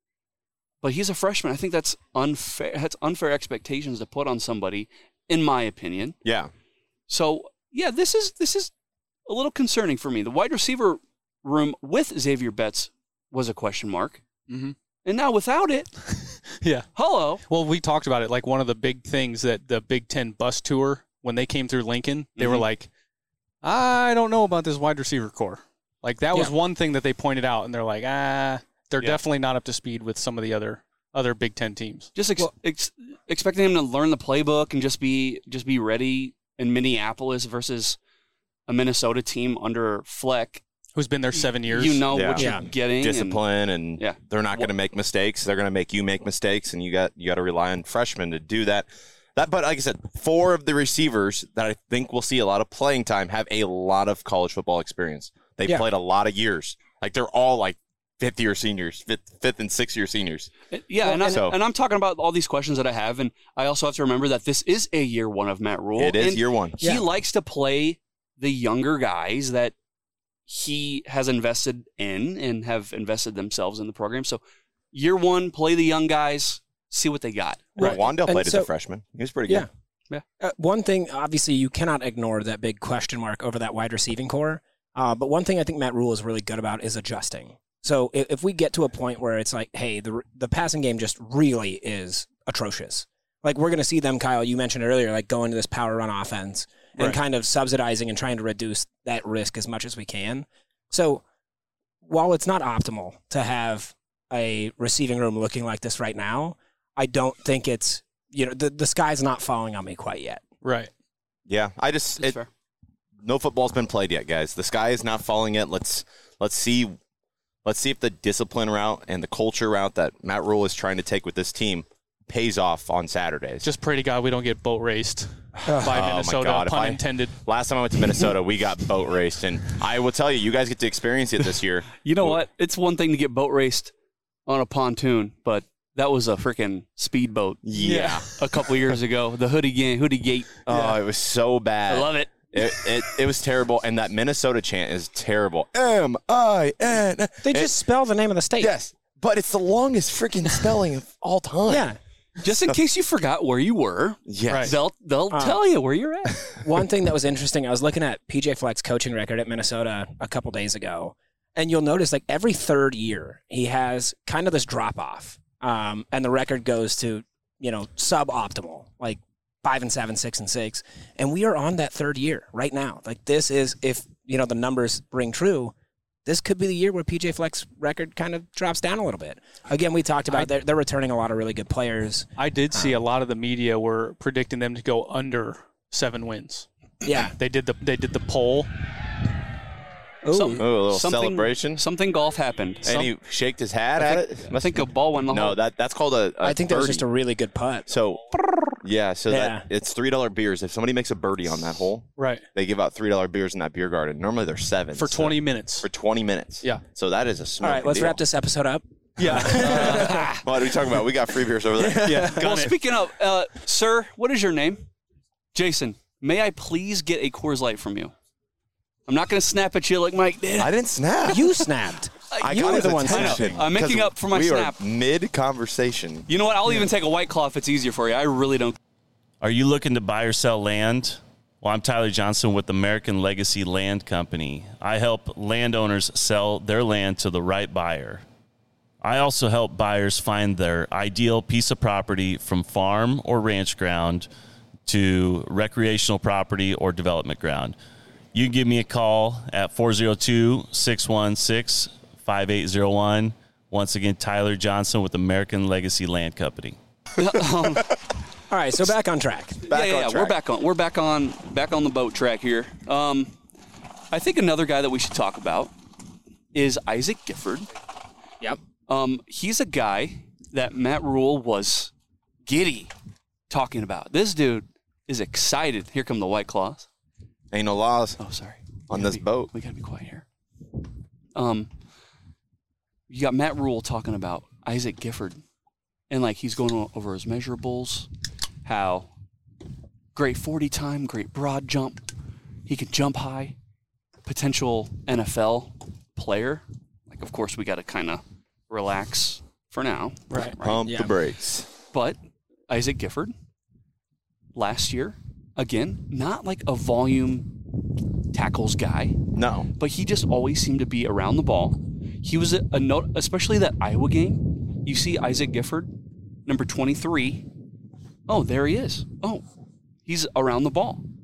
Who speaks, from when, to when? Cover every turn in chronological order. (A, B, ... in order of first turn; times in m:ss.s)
0:00.8-0:06.2 A
0:06.2-0:06.5 B
0:07.1-0:08.7 A
0:09.2-0:14.2 A
0:14.5-0:14.7 C
0:15.0-0:15.9 A
0:16.1-0:16.9 C
0:16.9-0:17.4 A
0:17.5-0:22.9 C
0:22.4-0:22.6 A
0:23.6-0:32.1 C
0:32.1-0:38.0 A
0:38.7-0:40.6 A
0:40.9-0:42.5 C
0:41.3-0:43.4 A
0:42.1-1:00.5 B
0:42.4-0:42.6 D
0:44.0-0:44.7 A
1:00.7-1:09.7 A
1:01.0-1:01.4 D
1:01.2-1:01.6 B
1:06.0-1:06.8 B
1:10.5-1:14.4 A
1:14.9-1:17.8 A
1:17.8-1:18.7 D
1:17.8-1:19.7 B
1:20.4-1:41.2 D
1:42.0-1:50.4 D
1:50.6-1:50.9 C
1:51.5-1:52.4 B
1:52.2-1:52.5 A
1:53.2-1:57.0 B
1:57.6-2:03.7 B
2:03.6-2:07.3 C
2:05.6-2:06.0 D
2:05.8-2:12.4 B
2:12.0-2:13.9 A
2:14.5-2:20.9 A
2:17.6-2:18.4 B
2:17.8-2:18.2 C
2:20.7-2:27.7 B
2:21.9-2:22.9 A
2:27.4-2:28.7 D
2:28.6-2:31.8 B
2:31.7-2:32.0 D
2:32.4-2:36.4 A
2:32.5-2:32.7 B
2:34.3-2:34.8 B
2:34.5-2:34.7 C
2:35.3-2:35.6 D
2:36.6-2:55.7 D
2:56.2-3:03.0 D
3:02.4-3:06.7 C
3:07.0-3:07.3 D
3:07.3-3:08.7 C
3:10.2-3:10.6 D
3:10.3-3:13.1 A
3:10.6-3:11.8 B
3:12.8-3:17.0 B
3:14.0-3:15.6 A
3:16.4-3:17.9 D
3:17.9-3:18.2 B
3:18.8-3:28.2 B
3:19.3-3:19.6 D
3:22.2-3:22.4 C
3:25.0-3:25.8 C
3:27.6-3:30.4 D
3:29.2-3:30.2 C
3:29.3-3:32.4 B
3:31.8-3:32.4 D
3:32.0-3:32.7 C
3:32.4-3:34.8 A
3:35.5-3:38.1 A
3:39.1-3:40.7 A
3:40.6-3:41.5 B
3:41.3-3:43.6 D
3:42.3-3:44.8 A
3:42.4-3:46.3 B
3:46.3-3:48.8 A
3:49.4-3:58.2 E
3:59.0-4:04.3 E
4:04.8-4:07.8 E
4:08.3-4:16.8 E
4:17.2-4:17.9 A
4:18.5-4:19.6 D
4:19.6-4:20.4 B
4:19.7-4:23.3 A
4:24.1-4:25.7 A
4:26.5-4:27.7 A
4:28.9-4:31.9 A
4:32.4-4:32.9 A
4:33.5-4:36.9 A
4:37.5-4:38.2 B
4:38.2-4:40.2 A
4:38.9-4:39.5 B
4:41.3-4:41.7 A
4:43.1-4:45.4 A
4:46.1-4:48.1 A
4:48.6-4:49.1 A
4:50.1-4:52.0 A
4:52.6-4:53.6 A
4:54.2-5:00.9 A
5:00.6-5:01.7 B
5:00.8-5:01.1 D
5:01.9-5:02.2 A
5:02.7-5:03.3 A
5:04.5-5:07.6 A
5:08.3-5:09.2 A
5:09.3-5:09.7 B
5:09.8-5:15.9 A
5:16.4-5:17.4 A
5:18.3-5:19.4 A
5:20.0-5:21.0 A